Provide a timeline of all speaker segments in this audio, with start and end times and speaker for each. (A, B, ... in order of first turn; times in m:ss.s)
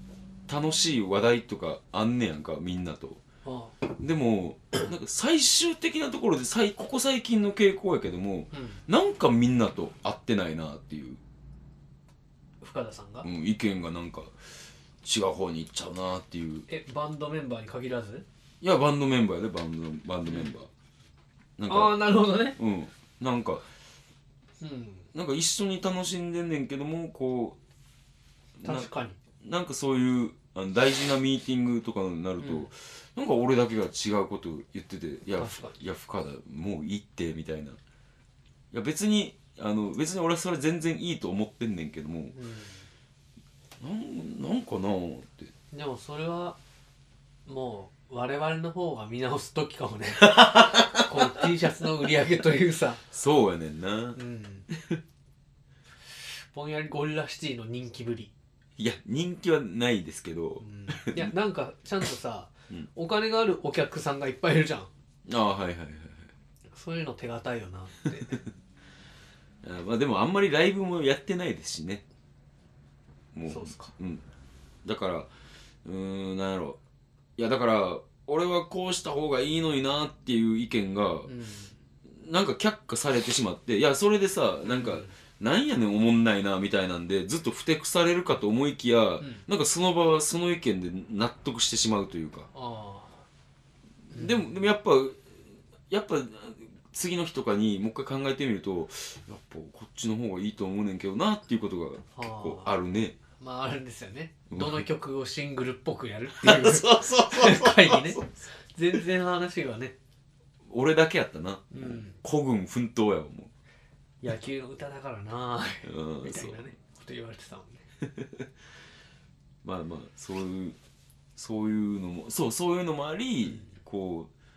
0:00.5-0:03.2 A
0:03.4-0:03.8 B
0:04.0-0:11.2 A
0:08.5-0:08.8 B
0:12.6-0:13.3 B
0:13.2-0:14.3 A
0:15.0-0:16.7 A
0:16.7-0:18.2 B
0:18.6-0:20.7 A
0:21.6-0:22.0 A
0:21.7-0:22.6 B
0:22.5-0:23.7 A
0:24.6-0:25.1 B
0:25.1-0:27.6 A
0:28.6-0:28.9 A
0:28.6-0:29.2 B
0:29.4-0:37.8 A
0:32.4-0:32.7 B
0:35.4-0:35.8 B
0:38.7-0:42.4 A
0:42.3-0:42.9 B
0:43.8-0:45.5 A
0:45.7-0:46.6 B
0:47.5-0:53.0 B
0:50.2-0:51.2 A
0:53.1-0:54.2 A
0:54.2-0:54.7 B
0:54.7-0:55.0 A
0:56.5-0:58.3 B
0:58.8-1:01.3 A
1:00.6-1:04.9 B
1:05.3-1:06.3 A
1:06.7-1:08.4 B
1:09.6-1:12.0 A
1:13.3-1:14.2 A
1:13.5-1:13.9 B
1:14.8-1:15.3 A
1:15.8-1:16.8 A
1:17.4-1:21.3 A
1:21.3-1:21.8 B
1:22.1-1:32.5 A
1:24.6-1:25.1 B
1:32.5-1:33.2 B
1:34.1-1:35.3 A
1:34.1-1:34.6 B
1:35.9-1:43.2 A
1:42.1-1:42.7 B
1:43.4-1:50.0 B
1:44.5-1:44.8 A
1:46.4-1:48.5 A
1:50.7-1:53.5 A
1:51.7-1:52.2 B
1:54.2-1:57.8 B
1:55.8-1:56.6 A
1:58.1-1:58.5 A
1:59.6-2:00.8 A
2:01.4-2:04.3 A
2:03.4-2:03.7 B